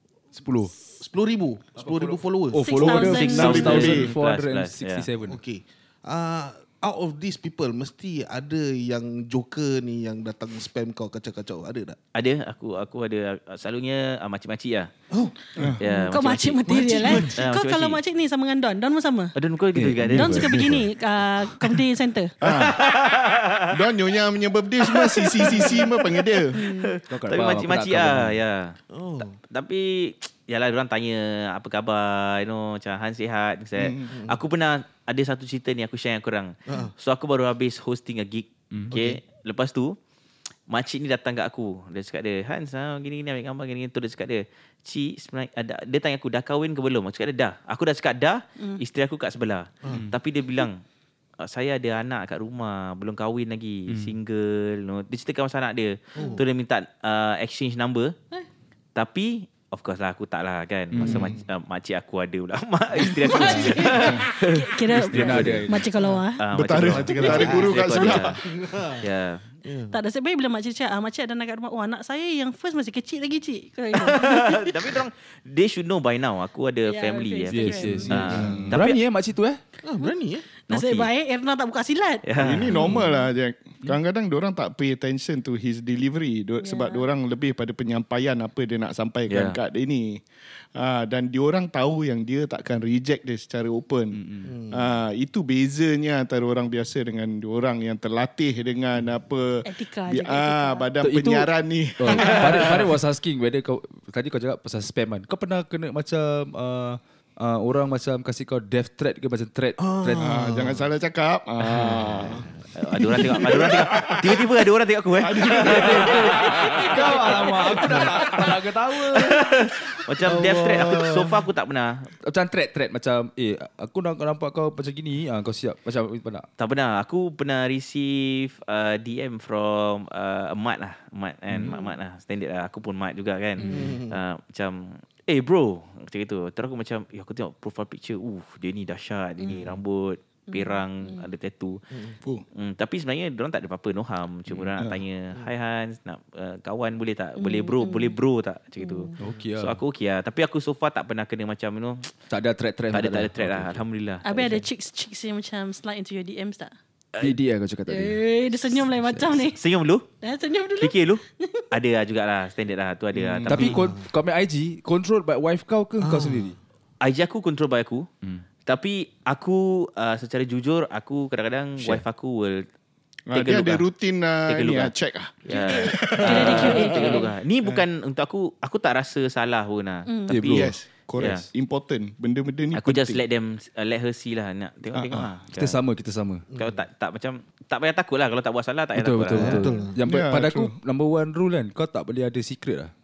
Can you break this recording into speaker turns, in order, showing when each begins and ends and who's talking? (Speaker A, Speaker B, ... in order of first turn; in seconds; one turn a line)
Speaker A: 0.3-0.8
Speaker B: 1.0-2.9
Speaker A: 1.8-5.4
Speaker C: 2.6-3.8
Speaker D: 2.8-5.1
Speaker E: 3.5-4.1
Speaker B: 5.2-12.0
Speaker D: 12.1-14.9
Speaker B: 15.1-15.4
Speaker D: 15.8-18.0
Speaker C: 15.8-19.4
Speaker B: 16.8-17.2
Speaker D: 19.4-20.7
Speaker A: 19.7-20.9
Speaker C: 20.1-22.4
Speaker E: 22.4-22.9
Speaker D: 22.4-23.8
Speaker E: 23.7-26.5
Speaker D: 24.9-40.0
Speaker C: 25.5-25.8
Speaker C: 26.5-27.0
Speaker A: 27.1-28.4
Speaker B: 28.9-29.4
Speaker B: 34.1-34.4
Speaker B: 36.7-36.9
Speaker B: 38.9-39.2
Speaker D: 40.7-50.8
Speaker A: 49.9-50.2
Speaker D: 51.4-58.1
Speaker B: 56.1-56.4
Speaker C: 56.2-56.4
Speaker D: 59.0-65.7
Speaker A: 60.9-61.3
Speaker B: 61.0-61.4
Speaker B: 63.1-64.1
Speaker C: 63.3-66.4
Speaker A: 64.9-65.9
Speaker B: 65.9-66.2
Speaker D: 66.4-68.4
Speaker E: 66.5-68.4
Speaker B: 66.9-67.7
Speaker C: 67.0-68.3
Speaker B: 68.4-69.1
Speaker D: 69.0-69.4
Speaker B: 69.6-70.0
Speaker C: 69.9-75.0
Speaker D: 73.9-79.0
Speaker C: 76.9-78.4
Speaker A: 77.5-79.6
Speaker B: 78.3-78.7
Speaker E: 78.4-78.8
Speaker B: 79.8-80.5
Speaker C: 80.0-83.3
Speaker D: 80.7-81.1
Speaker D: 82.2-82.7
Speaker E: 82.4-90.2
Speaker C: 86.6-87.0
Speaker D: 89.3-89.6
Speaker E: 90.8-94.2
Speaker A: 94.1-94.5
Speaker B: 94.4-94.9
Speaker E: 94.7-102.9
Speaker C: 99.6-100.9
Speaker A: 101.0-110.4
Speaker B: 109.8-110.8
Speaker E: 110.2-112.4
Speaker A: 111.7-112.1
Speaker D: 112.8-118.3
Speaker E: 113.0-114.5
Speaker E: 115.3-118.3
Speaker A: 115.6-121.5
Speaker D: 119.0-122.1
Speaker A: 122.3-126.5
Speaker D: 126.6-141.8
Speaker C: 131.6-131.9
Speaker B: 133.6-134.2
Speaker C: 133.6-134.0
Speaker C: 139.4-139.7
Speaker C: 140.5-141.2
Speaker D: 142.6-152.1
Speaker A: 144.5-144.7
Speaker C: 147.4-148.2
Speaker C: 148.8-149.1
Speaker A: 149.2-149.8
Speaker A: 152.3-153.8
Speaker D: 152.9-154.3
Speaker C: 154.2-156.8
Speaker B: 154.4-154.6
Speaker A: 157.2-158.2
Speaker C: 157.9-159.6
Speaker A: 158.7-159.5
Speaker D: 159.6-160.1
Speaker C: 160.2-161.7
Speaker D: 160.8-163.8
Speaker E: 163.1-163.7
Speaker A: 163.5-166.6
Speaker B: 163.6-164.1
Speaker B: 166.0-166.6
Speaker D: 167.0-168.1
Speaker D: 168.7-172.7
Speaker A: 171.8-172.0
Speaker E: 173.3-177.8
Speaker D: 173.3-173.9
Speaker D: 174.5-174.9
Speaker C: 175.5-177.3
Speaker D: 175.5-181.4
Speaker C: 180.1-180.4
Speaker A: 180.3-181.5
Speaker E: 180.4-183.2
Speaker D: 182.7-185.8
Speaker E: 184.9-185.3
Speaker A: 185.6-186.5
Speaker B: 186.5-186.8
Speaker D: 186.6-189.6
Speaker A: 188.9-192.9
Speaker B: 189.3-190.0
Speaker C: 189.6-189.9
Speaker E: 190.1-190.7